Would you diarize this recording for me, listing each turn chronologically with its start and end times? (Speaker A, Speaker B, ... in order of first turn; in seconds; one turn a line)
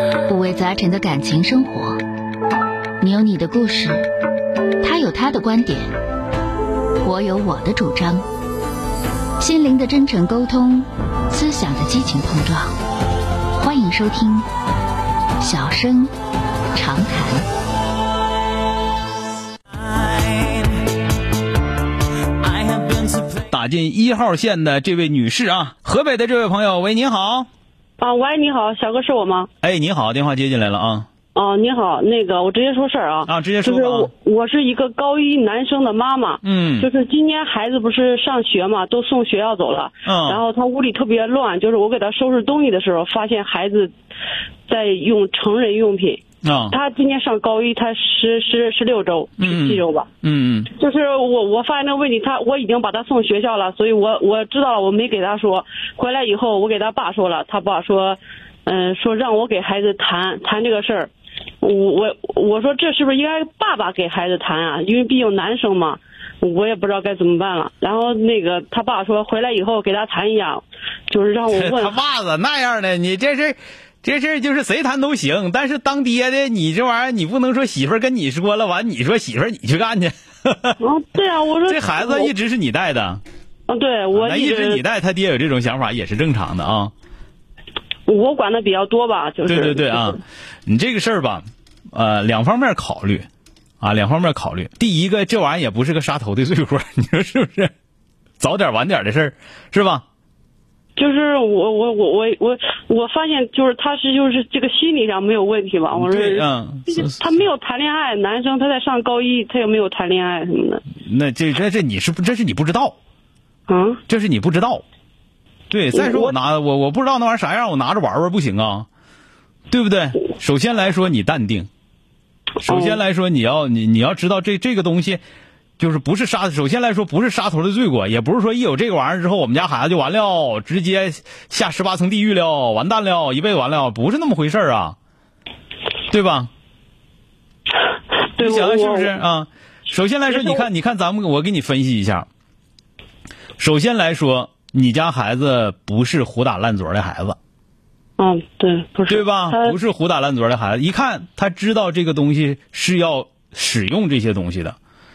Speaker A: 0.3-2.0
Speaker A: 3.0-4.0
Speaker A: 4.8-5.9
Speaker A: 7.0-8.2
Speaker A: 9.4-12.7
Speaker A: 13.6-14.4
Speaker A: 15.4-16.1
Speaker A: 16.7-17.5
Speaker B: 23.4-27.5
Speaker C: 28.0-29.5
Speaker B: 29.6-31.1
Speaker C: 31.3-43.9
Speaker B: 33.2-34.1
Speaker B: 36.4-36.9
Speaker B: 40.0-40.4
Speaker C: 44.7-50.1
Speaker B: 46.4-46.7
Speaker B: 49.4-50.7
Speaker C: 50.7-72.0
Speaker B: 71.5-80.8
Speaker C: 80.8-82.3
Speaker B: 81.6-83.2
Speaker C: 83.7-84.8
Speaker B: 84.1-86.9
Speaker C: 88.1-90.2
Speaker B: 89.5-93.3
Speaker B: 93.8-97.7
Speaker B: 98.4-100.0
Speaker C: 101.0-110.8
Speaker B: 106.0-107.3
Speaker B: 111.0-112.9
Speaker C: 113.7-114.0
Speaker B: 114.1-114.8
Speaker B: 115.7-118.9
Speaker C: 115.9-116.3
Speaker B: 119.7-121.7
Speaker C: 122.6-123.0
Speaker B: 122.6-125.2
Speaker B: 125.8-134.9
Speaker B: 136.1-136.5
Speaker C: 138.3-139.1
Speaker B: 138.4-142.2
Speaker C: 140.3-140.7
Speaker B: 143.6-147.3
Speaker C: 148.2-149.8
Speaker B: 149.1-154.8